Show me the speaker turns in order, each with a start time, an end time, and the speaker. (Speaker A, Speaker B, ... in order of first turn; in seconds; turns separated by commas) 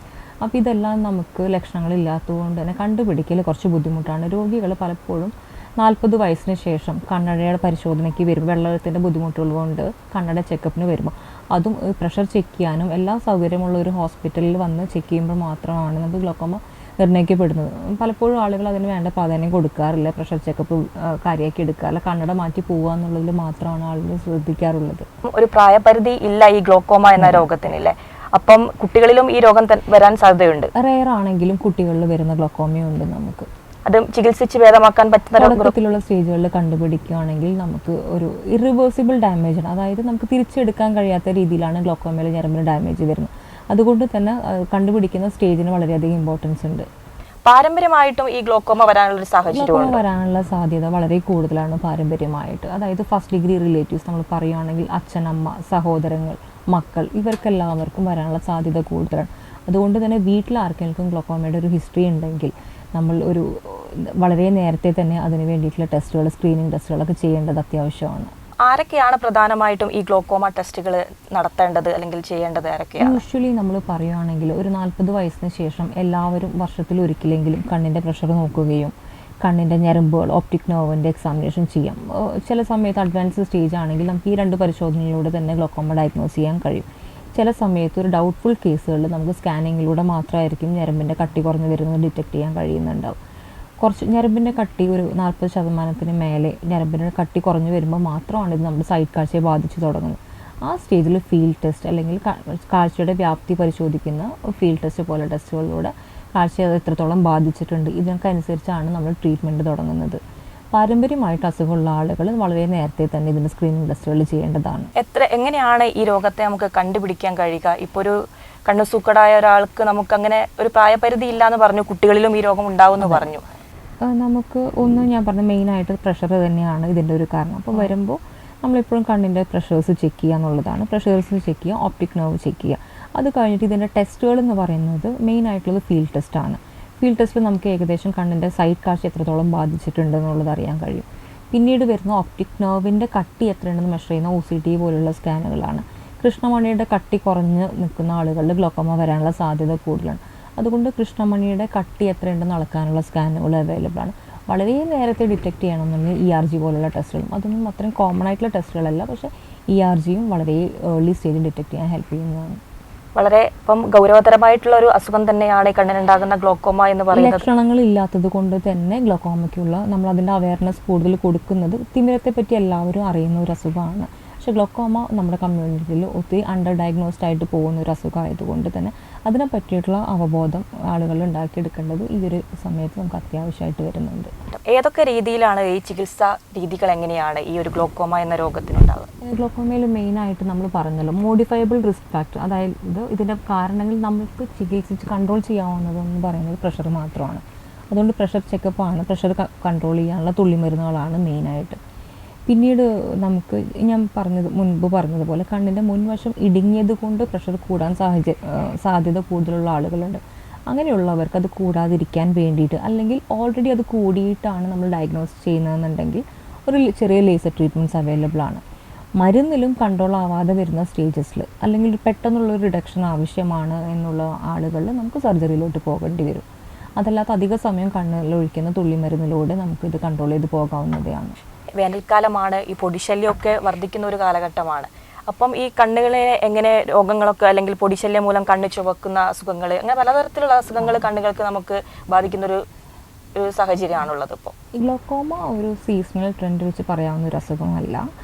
Speaker A: 0.4-25.1, Speaker B: 25.3-30.7, Speaker A: 27.2-27.5, Speaker A: 30.8-33.5, Speaker B: 33.9-35.8, Speaker A: 35.4-46.9, Speaker B: 47.5-50.0, Speaker A: 49.5-68.3, Speaker B: 68.7-73.2, Speaker A: 73.0-93.2, Speaker A: 93.8-110.2, Speaker A: 110.7-114.9, Speaker B: 115.0-118.2, Speaker B: 118.7-123.4, Speaker A: 123.0-123.3, Speaker A: 124.0-162.6, Speaker B: 163.2-167.5, Speaker A: 167.1-184.3, Speaker B: 184.5-189.1, Speaker A: 189.2-201.8, Speaker A: 202.5-218.6, Speaker A: 219.2-226.5, Speaker A: 227.0-231.4, Speaker B: 231.8-242.6, Speaker A: 240.8-241.1, Speaker B: 243.4-244.5, Speaker A: 244.8-248.1